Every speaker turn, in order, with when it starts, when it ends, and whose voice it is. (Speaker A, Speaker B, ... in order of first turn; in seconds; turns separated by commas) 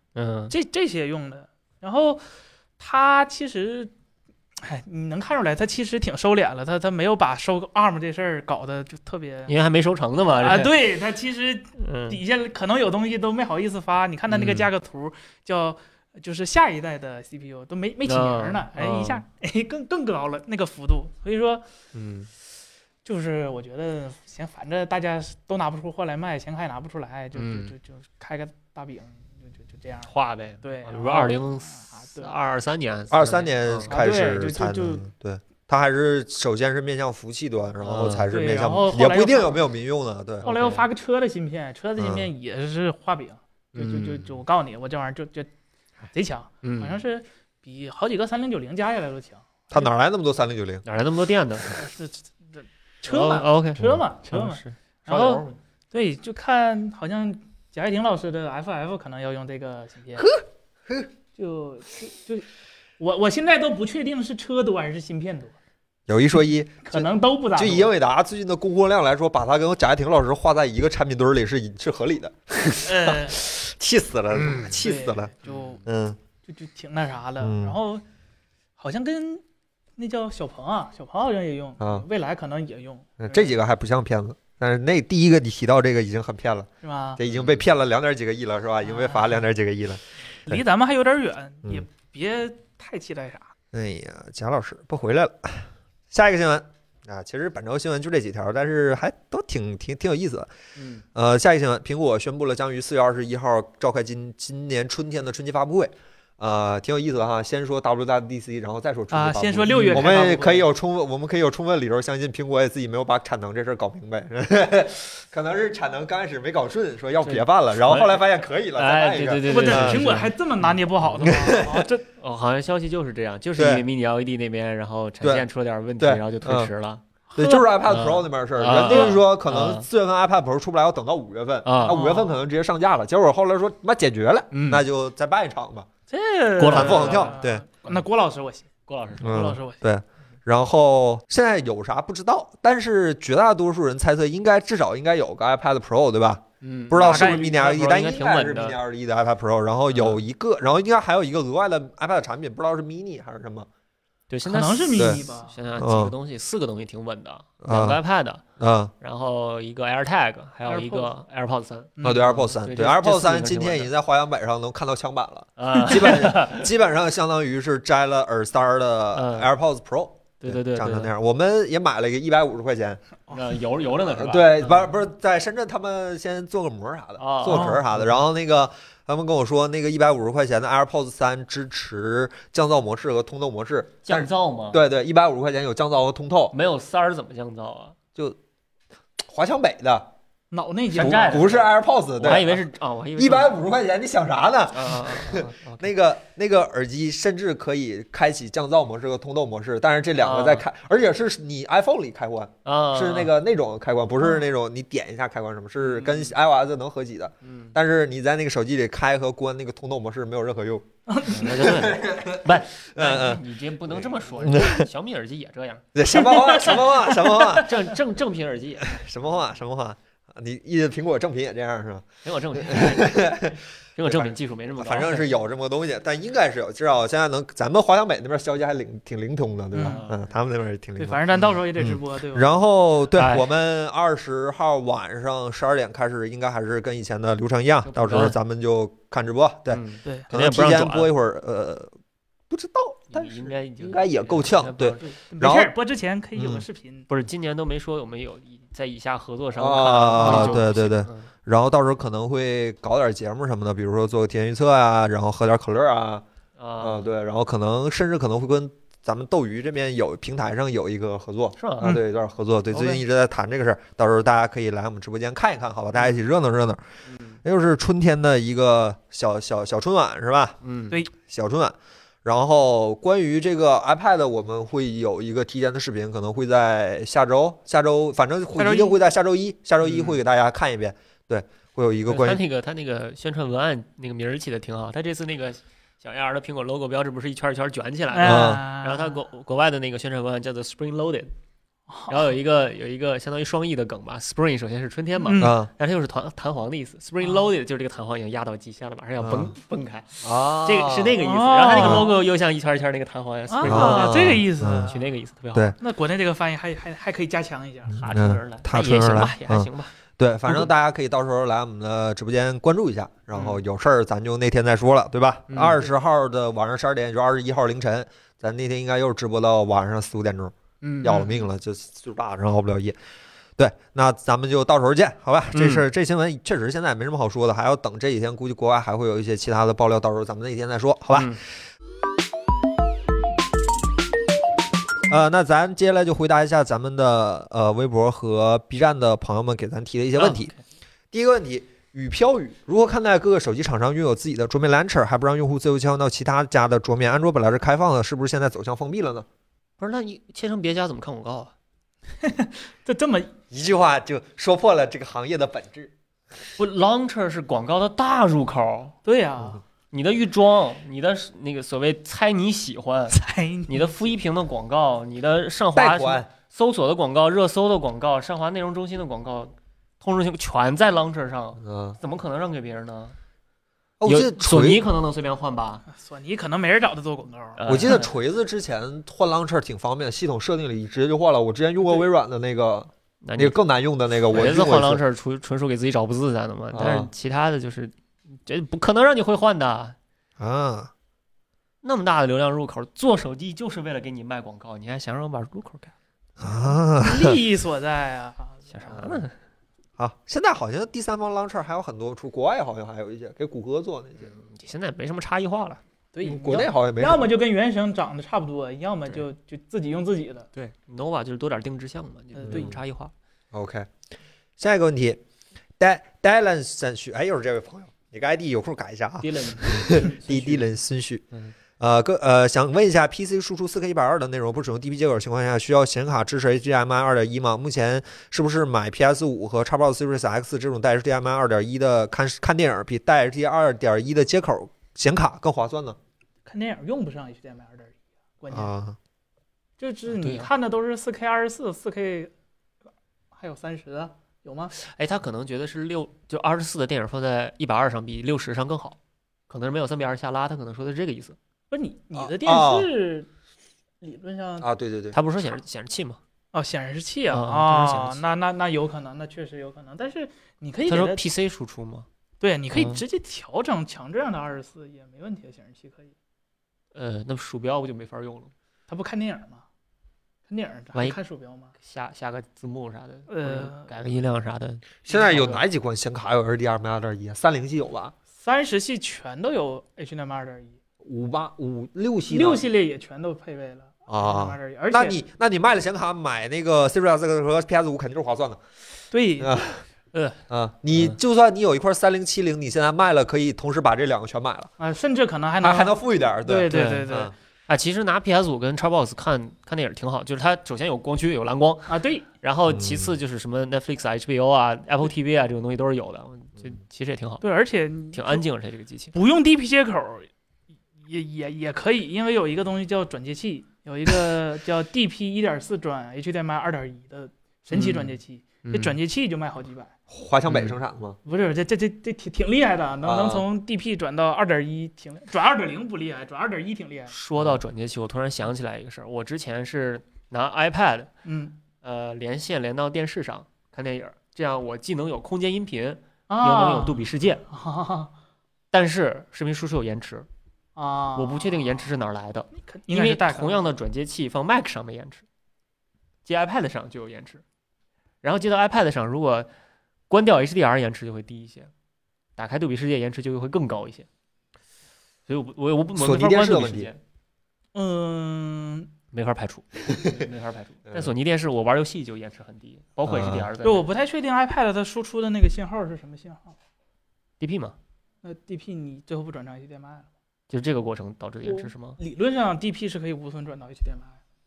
Speaker A: 0.1-0.5, Speaker B: 0.5-2.2, Speaker B: 2.8-3.9, Speaker B: 4.6-9.5, Speaker A: 9.5-10.7, Speaker B: 10.4-21.6, Speaker A: 11.8-12.2, Speaker A: 14.3-14.7, Speaker A: 18.0-19.2, Speaker A: 21.9-22.3, Speaker B: 23.0-30.1, Speaker A: 27.3-27.7, Speaker A: 30.1-33.9, Speaker B: 30.6-32.3, Speaker C: 33.1-40.5, Speaker B: 33.9-35.0, Speaker A: 37.8-38.3, Speaker B: 38.3-39.6, Speaker A: 40.4-40.9, Speaker B: 40.4-45.5, Speaker C: 42.0-42.3, Speaker A: 43.7-44.4, Speaker B: 46.1-49.9, Speaker A: 46.6-47.0, Speaker C: 49.7-50.8, Speaker A: 50.8-51.8, Speaker B: 51.7-60.3, Speaker A: 53.1-55.6, Speaker C: 60.1-61.1, Speaker B: 61.4-62.5, Speaker B: 63.0-65.5, Speaker C: 66.1-75.3, Speaker B: 66.8-67.9, Speaker B: 72.8-73.4, Speaker A: 74.4-74.7, Speaker B: 74.8-75.8, Speaker A: 75.4-75.8, Speaker C: 75.8-76.2, Speaker B: 76.5-78.0, Speaker C: 77.4-77.8, Speaker B: 78.8-79.4, Speaker B: 80.0-83.5, Speaker C: 81.8-82.0, Speaker C: 83.2-90.6, Speaker B: 86.8-87.2, Speaker A: 87.3-87.6, Speaker B: 88.8-89.4, Speaker B: 90.5-93.5, Speaker C: 93.7-100.5, Speaker A: 100.8-101.0, Speaker C: 101.1-120.1, Speaker B: 109.1-110.7, Speaker A: 109.7-110.2, Speaker A: 117.2-121.3, Speaker B: 119.5-122.0, Speaker C: 121.2-121.9, Speaker A: 122.2-127.0, Speaker C: 123.5-123.8, Speaker C: 126.0-126.7, Speaker B: 127.3-127.7, Speaker C: 127.3-135.9, Speaker A: 127.8-129.9, Speaker B: 128.7-129.2, Speaker A: 131.6-132.0, Speaker B: 131.8-132.3, Speaker A: 134.5-134.8, Speaker B: 136.1-139.8, Speaker A: 136.6-137.3, Speaker C: 136.7-137.6, Speaker A: 138.9-139.4, Speaker C: 139.2-153.7, Speaker A: 146.6-148.8, Speaker B: 146.9-147.6, Speaker A: 149.9-150.2, Speaker A: 154.3-158.4, Speaker B: 154.4-155.6, Speaker C: 154.9-155.2, Speaker C: 155.8-156.1, Speaker C: 157.6-158.0, Speaker C: 158.6-158.9, Speaker A: 159.0-163.9, Speaker B: 160.7-161.1, Speaker B: 162.0-162.3, Speaker C: 162.0-173.0, Speaker A: 165.6-166.7, Speaker A: 169.1-169.5, Speaker A: 170.4-171.1, Speaker A: 173.3-174.9, Speaker C: 174.1-186.5, Speaker A: 177.2-178.1, Speaker B: 177.4-177.8, Speaker A: 184.0-184.8, Speaker A: 186.5-187.9, Speaker C: 189.2-190.1, Speaker B: 190.5-191.6, Speaker C: 190.9-192.6, Speaker A: 190.9-193.6, Speaker C: 193.2-214.9, Speaker A: 194.7-195.9, Speaker A: 200.2-200.6, Speaker A: 202.6-203.3, Speaker A: 205.8-206.3, Speaker A: 207.4-207.7, Speaker B: 211.1-211.3, Speaker A: 211.2-215.8, Speaker C: 215.9-217.7, Speaker B: 216.1-216.9, Speaker A: 217.5-219.0, Speaker C: 218.9-231.2, Speaker A: 222.2-223.4, Speaker A: 223.9-225.3, Speaker B: 229.7-230.0, Speaker A: 229.8-230.3, Speaker B: 231.0-232.6, Speaker C: 231.8-241.9, Speaker A: 233.1-233.5, Speaker A: 237.8-238.3, Speaker A: 239.7-241.1, Speaker C: 242.5-245.7, Speaker A: 243.1-245.1, Speaker B: 245.0-247.1, Speaker C: 246.3-246.6, Speaker A: 247.1-251.3, Speaker C: 249.6-256.2, Speaker B: 250.2-250.6, Speaker A: 256.6-257.1, Speaker C: 256.8-266.8, Speaker A: 261.6-261.9, Speaker A: 262.7-263.0, Speaker A: 267.1-267.4, Speaker C: 267.4-270.6, Speaker A: 270.6-271.0, Speaker C: 271.2-282.4, Speaker B: 278.6-279.0, Speaker A: 279.8-280.2, Speaker A: 282.1-291.3, Speaker B: 288.1-289.2, Speaker C: 288.2-288.6, Speaker B: 291.9-292.3, Speaker A: 292.1-304.3, Speaker B: 295.2-295.5, Speaker C: 295.4-295.7, Speaker C: 299.2-299.5, Speaker C: 300.2-301.2, Speaker B: 301.2-302.1, Speaker C: 301.7-302.1, Speaker B: 303.5-305.0, Speaker C: 303.6-304.9, Speaker A: 304.9-305.7, Speaker B: 305.8-308.0, Speaker A: 307.9-309.9, Speaker C: 308.1-322.9, Speaker A: 315.5-315.8, Speaker A: 320.8-321.3, Speaker C: 323.6-331.4, Speaker A: 325.5-325.8, Speaker A: 331.1-331.4, Speaker C: 335.1-340.5, Speaker A: 340.2-340.6, Speaker C: 341.1-349.3, Speaker A: 349.8-351.5, Speaker B: 352.2-353.3, Speaker C: 353.5-355.9, Speaker A: 356.6-358.9, Speaker B: 359.0-359.6, Speaker A: 359.9-373.1, Speaker B: 363.1-363.9, Speaker C: 365.7-366.3, Speaker C: 371.6-372.0, Speaker C: 374.0-374.8, Speaker A: 374.0-375.8, Speaker B: 375.9-377.6, Speaker A: 377.6-378.1, Speaker C: 377.7-385.0, Speaker A: 383.2-383.6, Speaker A: 384.3-389.9, Speaker C: 386.7-387.1, Speaker C: 390.4-390.9, Speaker A: 391.8-395.9, Speaker C: 396.4-397.4, Speaker B: 396.6-399.0, Speaker A: 398.7-399.4, Speaker C: 400.0-404.3, Speaker A: 404.2-405.8, Speaker B: 406.1-410.5, Speaker C: 406.2-407.3, Speaker A: 410.5-413.1, Speaker B: 412.3-412.7, Speaker C: 413.5-413.9, Speaker C: 414.6-415.2, Speaker C: 415.8-436.0, Speaker A: 419.2-420.7, Speaker B: 436.4-438.7, Speaker C: 438.5-439.0, Speaker B: 439.8-442.3, Speaker A: 440.1-440.5, Speaker B: 443.3-444.7, Speaker A: 444.7-449.0, Speaker A: 449.5-451.4, Speaker B: 451.7-453.3, Speaker C: 452.1-452.9, Speaker B: 454.0-454.7, Speaker C: 454.6-455.1, Speaker A: 455.1-456.2, Speaker B: 456.5-461.2, Speaker A: 457.3-458.2, Speaker A: 460.9-462.1, Speaker B: 462.4-466.1, Speaker A: 462.7-463.0, Speaker A: 466.9-468.5, Speaker B: 468.9-469.6, Speaker B: 470.5-471.7, Speaker A: 471.8-475.6, Speaker B: 473.3-473.9, Speaker C: 475.1-478.1, Speaker B: 478.4-480.8, Speaker C: 481.0-482.6, Speaker B: 482.3-485.2, Speaker C: 484.1-488.6, Speaker B: 489.1-489.5, Speaker C: 489.4-489.8, Speaker A: 490.1-490.4, Speaker C: 490.5-494.7, Speaker B: 494.8-497.3, Speaker C: 495.6-497.3, Speaker A: 496.7-497.1, Speaker A: 497.7-507.4, Speaker B: 501.9-502.2, Speaker C: 502.7-503.1, Speaker B: 507.4-508.4, Speaker A: 508.1-509.1, Speaker B: 509.1-510.3, Speaker B: 511.0-519.9, Speaker A: 517.7-519.0, Speaker C: 520.1-521.2, Speaker A: 520.5-520.8, Speaker B: 521.2-527.1, Speaker C: 523.0-523.5, Speaker A: 527.1-531.1, Speaker B: 531.2-531.6, Speaker A: 531.8-537.4, Speaker B: 536.3-538.1, Speaker A: 538.7-540.3, Speaker B: 540.8-541.9, Speaker A: 541.1-545.2, Speaker B: 542.5-543.7, Speaker A: 546.2-547.4, Speaker A: 548.2-549.5, Speaker A: 550.1-551.7, Speaker A: 552.4-554.1, Speaker A: 555.3-557.0, Speaker C: 556.0-556.9, Speaker B: 557.7-558.9, Speaker A: 559.1-563.9, Speaker C: 563.0-563.5, Speaker B: 563.6-566.5, Speaker A: 567.4-567.8, Speaker B: 568.2-570.1, Speaker A: 570.5-572.0, Speaker B: 571.4-574.2